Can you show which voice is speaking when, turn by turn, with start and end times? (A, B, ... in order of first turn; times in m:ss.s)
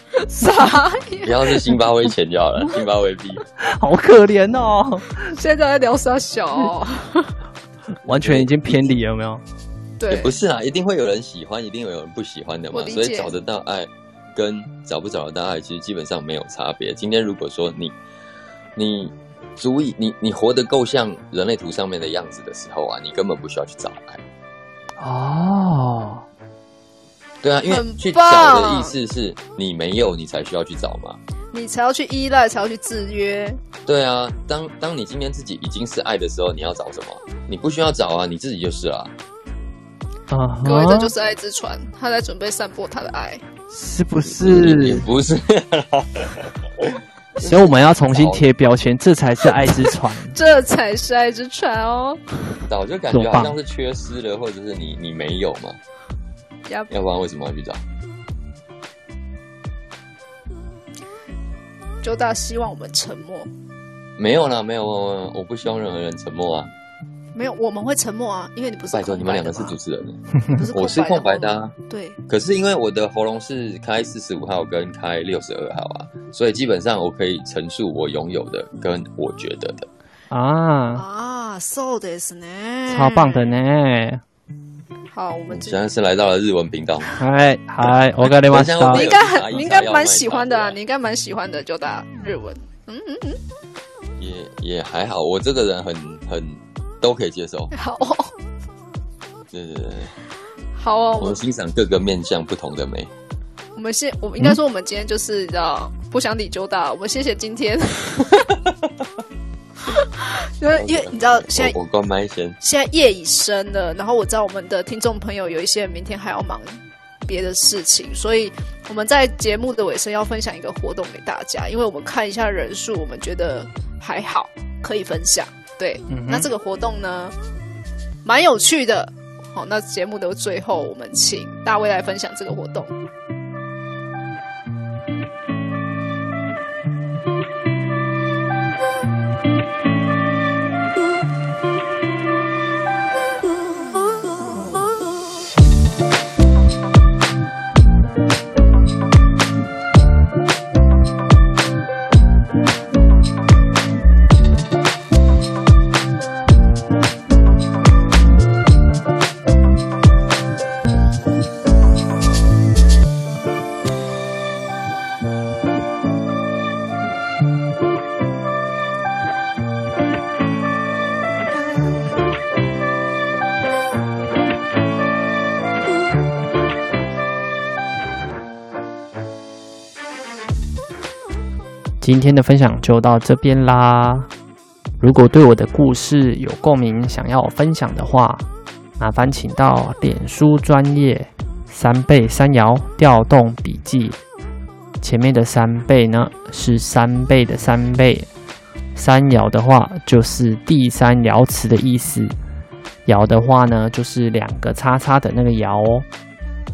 0:00.1-0:01.6 A
0:01.2-0:03.4 B
0:03.6-0:05.3 C
0:05.3-0:07.4 A
0:08.0-0:09.4 C
0:08.1-0:08.9 B
0:10.0-0:10.3 A
0:10.1-0:17.9 B
0:12.7-0:13.3 A
0:18.8-0:24.2 B
0:25.0-0:26.2 C
0:27.4-0:31.2 B
0:27.7-0:29.0 A
0:31.5-0:33.6 A
0:33.9-0:39.1 B
0:40.3-0:41.1 C
0:40.6-0:43.4 A
0:43.7-0:45.1 C
0:44.3-0:48.4 B
0:47.4-0:50.3 C
0:49.9-0:52.2 A
0:52.7-0:55.8 B
0:53.1-0:53.6 C
0:56.9-0:57.8 B
1:02.0-1:03.5 A
1:04.2-1:06.7 B
1:07.4-1:09.8 A
1:08.9-1:11.7 B
1:10.4-1:12.2 A
1:12.3-1:19.9 B
1:20.3-1:21.0 C
1:20.9-1:23.5 A
1:22.9-1:24.2 C
1:25.1-1:25.8 A
1:25.5-1:27.2 B
1:27.2-1:29.1 C
1:27.8-1:30.8 B
1:28.9-1:33.4 A
1:34.2-1:37.7 B
1:37.7-1:38.3 A
1:39.5-1:40.1 B
1:40.7-1:41.4 A
1:41.2-1:43.1 B
1:43.8-1:48.5 A
1:49.9-1:51.8 A
1:50.7-1:52.6 B
1:52.6-2:07.3 A
2:06.1-2:06.5 C
2:08.2-2:12.9 A
3:02.0-3:04.3 C
3:05.0-3:08.4 C
3:09.0-3:14.2 C
3:15.0-3:18.3 C
3:18.9-3:22.4 C
3:23.1-3:26.1 C